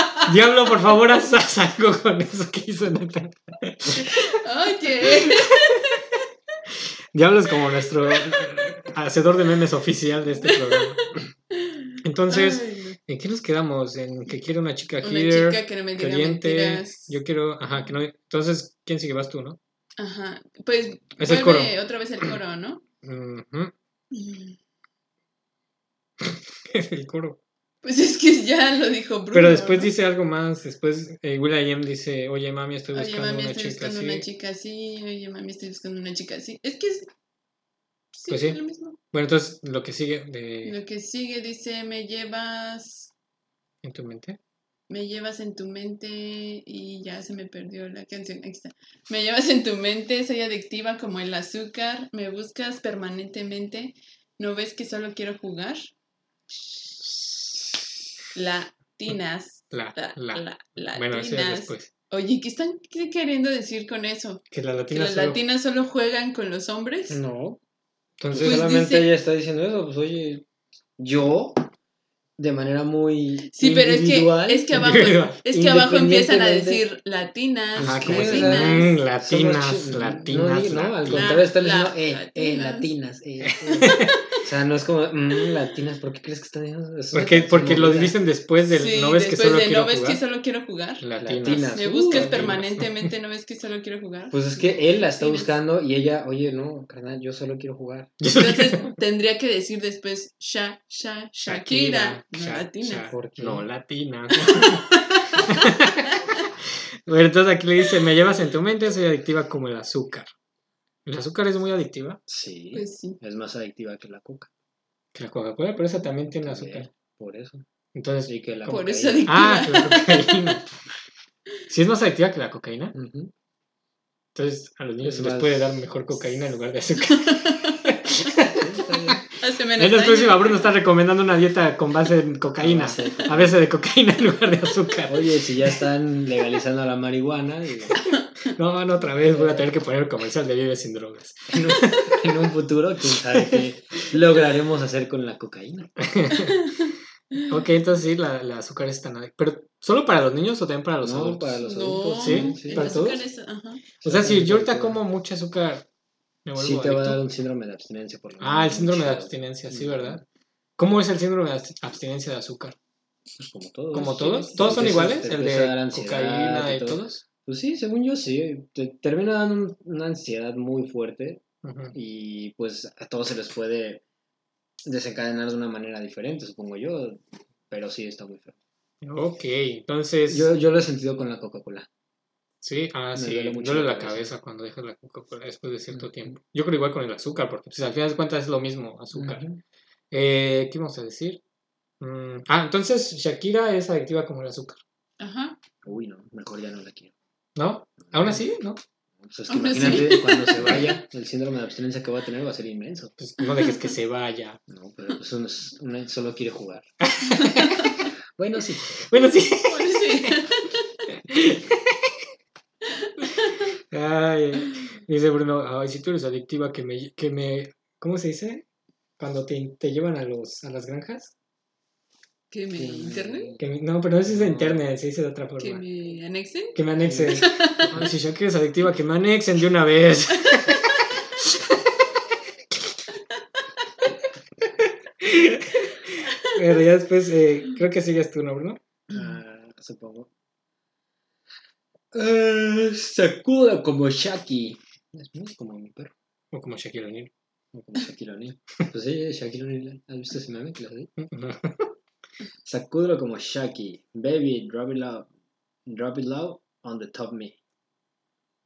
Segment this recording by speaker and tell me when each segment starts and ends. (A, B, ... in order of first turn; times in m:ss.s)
0:00.2-0:04.2 A
0:04.0-0:06.0 B
0:05.1-0:05.8 A
0:07.1-0:11.0 A
0:10.4-0:13.0 B
0:12.0-0:19.6 A
0:15.0-0:17.2 B
0:20.0-0:22.8 B
0:21.2-0:21.7 A
0:23.0-0:23.7 A
0:24.1-0:24.6 B
0:26.2-0:27.4 A
0:27.8-0:29.9 B
0:29.3-0:34.2 A
0:32.9-0:37.1 B
0:38.1-0:39.0 B
0:38.3-0:38.6 A
0:39.1-0:40.8 A
0:40.6-0:43.1 B
0:43.8-0:44.4 A
0:44.9-0:55.9 B
0:58.3-1:07.2 B
0:59.7-1:01.9 A
1:04.5-1:05.4 A
1:07.1-1:07.6 C
1:08.2-1:08.7 A
1:08.3-1:10.4 C
1:08.4-1:09.1 B
1:11.0-1:11.7 C
1:12.4-1:14.7 C
1:13.5-1:19.0 B
1:14.7-1:15.4 A
1:15.5-1:16.8 C
1:17.8-1:28.2 C
1:17.8-1:21.4 A
1:21.1-1:22.9 B
1:23.5-1:24.1 A
1:23.7-1:24.2 B
1:27.1-1:30.2 A
1:28.7-1:31.0 B
1:31.0-1:33.1 A
1:31.2-1:32.6 C
1:31.7-1:35.5 B
1:34.3-1:38.1 C
1:38.2-1:38.9 A
1:38.3-1:43.1 B
1:41.5-1:46.1 A
1:43.1-1:43.7 C
1:44.4-1:45.4 B
1:47.1-1:50.3 A
1:51.1-1:52.2 A
1:52.3-1:54.5 C
1:52.7-1:53.2 B
1:55.1-1:56.9 A
1:56.4-1:57.6 C
1:58.0-2:00.6 A
1:58.3-1:59.4 C
1:58.7-2:00.6 B
2:01.7-2:03.0 A
2:02.9-2:03.3 C
2:04.4-2:09.2 A
2:05.0-2:05.8 C
2:07.1-2:07.8 B
2:08.4-2:09.2 C
2:09.4-2:10.7 B
2:09.8-2:15.5 A
2:12.6-2:13.6 C
2:15.1-2:18.0 C
2:18.5-2:22.2 A
2:19.1-2:19.7 C
2:21.5-2:25.9 C
2:23.3-2:23.6 A
2:26.0-2:26.7 A
2:27.4-2:31.6 A
2:31.0-2:33.0 C
2:31.6-2:33.9 B
2:32.2-2:33.2 A
2:34.0-2:35.0 C
2:34.0-2:35.8 A
2:36.4-2:37.2 A
2:36.6-2:40.2 C
2:38.4-2:40.2 A
2:40.8-2:42.8 A
2:43.3-2:54.0 C
2:43.9-2:47.2 A
2:44.0-2:44.8 B
2:51.6-2:52.0 A
2:54.8-2:58.6 C
2:59.0-3:00.5 A
3:00.3-3:01.9 C
3:02.6-3:09.4 A
3:03.2-3:04.3 C
3:05.9-3:06.3 C
3:09.1-3:09.6 C
3:10.1-3:11.4 A
3:12.0-3:14.8 A
3:15.2-3:15.6 B
3:15.8-3:17.1 C
3:17.6-3:18.8 A
3:18.0-3:18.4 C
3:19.2-3:23.1 C
3:19.5-3:20.9 B
3:23.2-3:24.6 A
3:24.7-3:26.9 C
3:27.0-3:27.9 A
3:27.4-3:27.9 B
3:28.4-3:28.9 C
3:29.0-3:30.4 A
3:29.2-3:30.8 B
3:31.1-3:32.1 A
3:33.0-3:33.7 B
3:33.9-3:38.6 A
3:39.2-3:41.3 A
3:42.5-3:43.6 B
3:42.8-3:43.6 C
3:43.6-3:45.8 A
3:44.3-3:44.8 C
3:45.6-3:47.9 B
3:46.8-3:51.7 A
3:47.0-3:48.0 C
3:54.6-3:58.8 A
3:59.1-4:00.3 C
4:02.1-4:06.1 C
4:06.5-4:07.3 A
4:07.7-4:11.1 C
4:11.2-4:11.9 A
4:12.6-4:15.3 C
4:15.9-4:17.6 C